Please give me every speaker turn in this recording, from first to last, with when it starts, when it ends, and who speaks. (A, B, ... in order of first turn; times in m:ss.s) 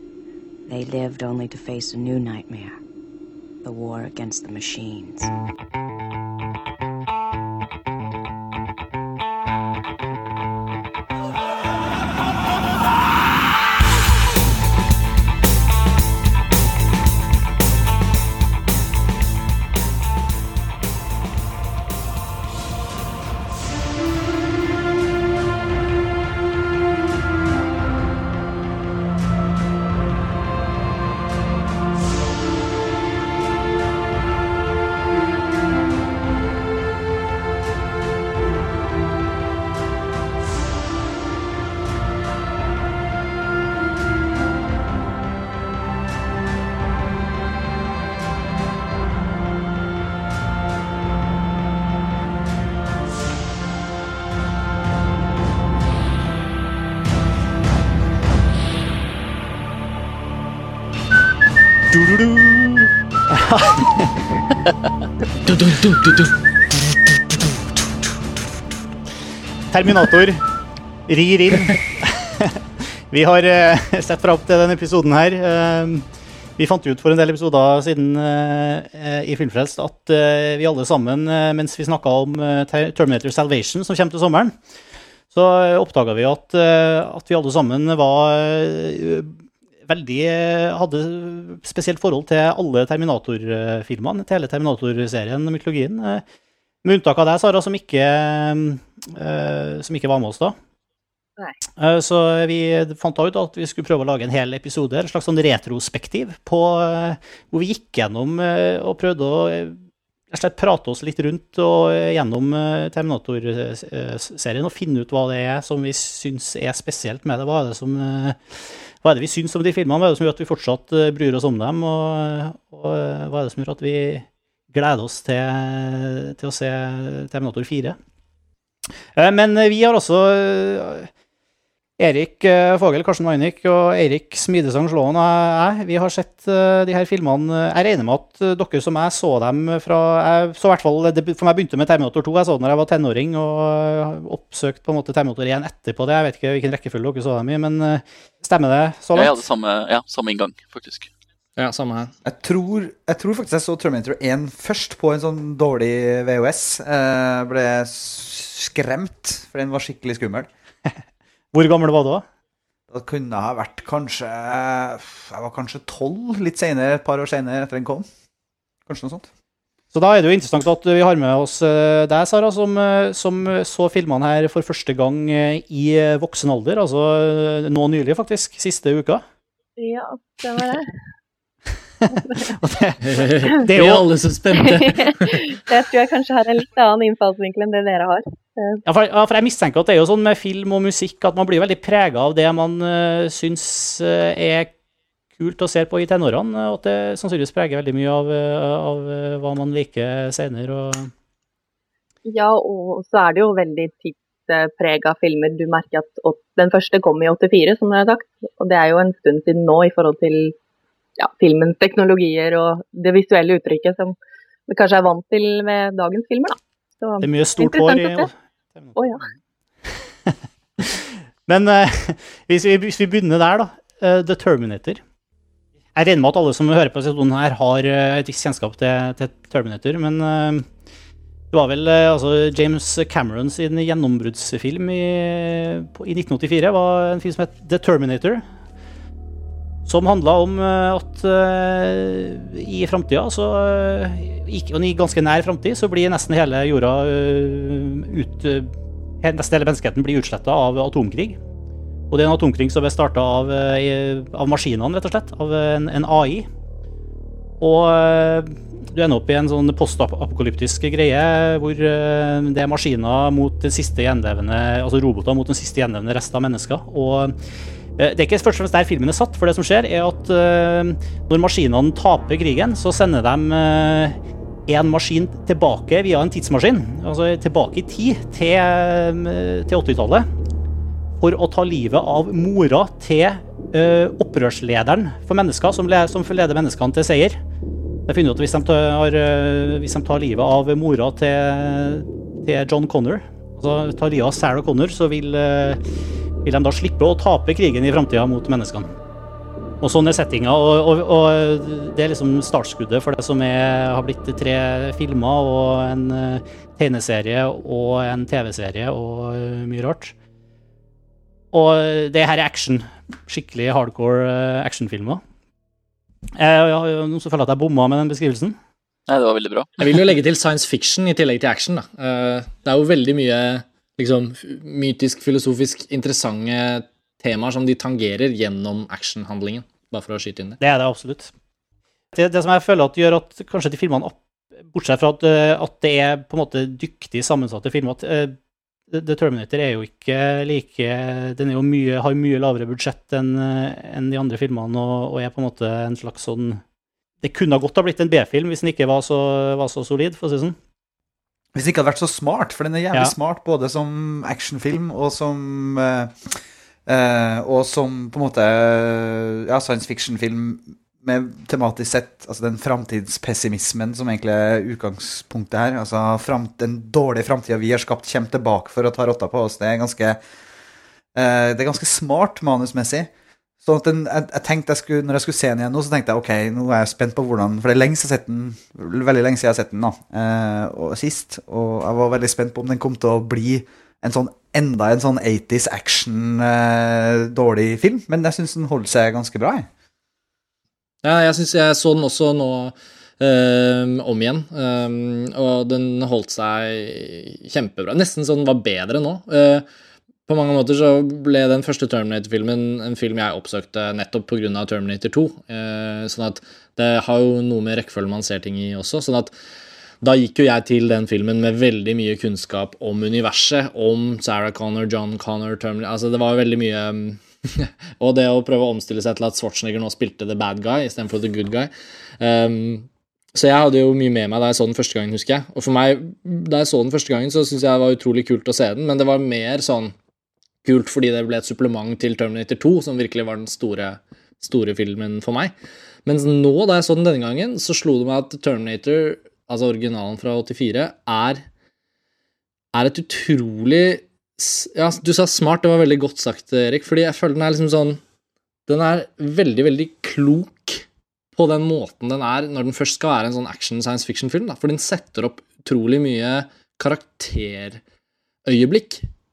0:00.7-0:02.8 A
0:03.6-0:05.3 A
1:02.0-1:04.1 B
1:05.5-1:06.2 C
1:09.7-1:10.4 B
1:11.1-1:12.6 B
1:13.1-1:16.0 B
1:16.6-1:24.6 B
1:25.3-1:36.2 B
1:36.8-1:40.6 B
1:41.8-1:49.8 B
1:50.3-2:08.0 B
2:09.2-2:11.1 B
2:12.0-2:29.4 B
2:29.2-2:31.1 D
2:31.6-2:32.1 C
2:32.2-2:40.5 E
2:41.5-2:42.2 B
2:42.9-2:48.1 E
2:48.9-2:49.3 E
2:49.9-2:59.2 B
2:59.8-3:00.9 F
3:02.1-3:04.1 B
3:03.0-3:05.4 C
3:04.6-3:08.8 F
3:08.8-3:14.7 B
3:15.4-3:21.1 B
3:22.2-3:30.5 F
3:31.2-3:34.2 F
3:34.7-3:38.3 F
3:37.2-3:39.3 B
3:39.0-3:39.2 F
3:39.9-3:45.0 B
3:46.0-3:50.6 B
3:51.5-3:58.4 B
3:59.8-4:11.4 B
4:12.1-4:16.5 B
4:17.6-4:27.3 B
4:28.0-4:40.3 B
4:41.2-4:47.4 B
4:48.1-4:55.8 B
4:56.4-4:58.9 B
4:59.8-5:10.1 B
5:11.5-5:15.2 B
5:16.4-5:18.6 B
5:19.1-5:19.7 D
5:19.8-5:30.6 C
5:30.6-5:31.3 B
5:32.1-5:34.2 B
5:34.7-5:38.4 B
5:38.9-5:46.6 B
5:47.2-5:50.6 B
5:51.5-5:56.2 E
5:56.8-6:10.2 E
6:11.1-6:13.1 E
6:13.6-6:29.7 E
6:31.0-6:39.6 C
6:40.3-6:49.4 C
6:50.0-7:09.9 C
7:10.6-7:15.5 C
7:16.0-7:21.4 C
7:22.7-7:28.0 C
7:28.7-7:37.8 C
7:38.4-7:39.0 C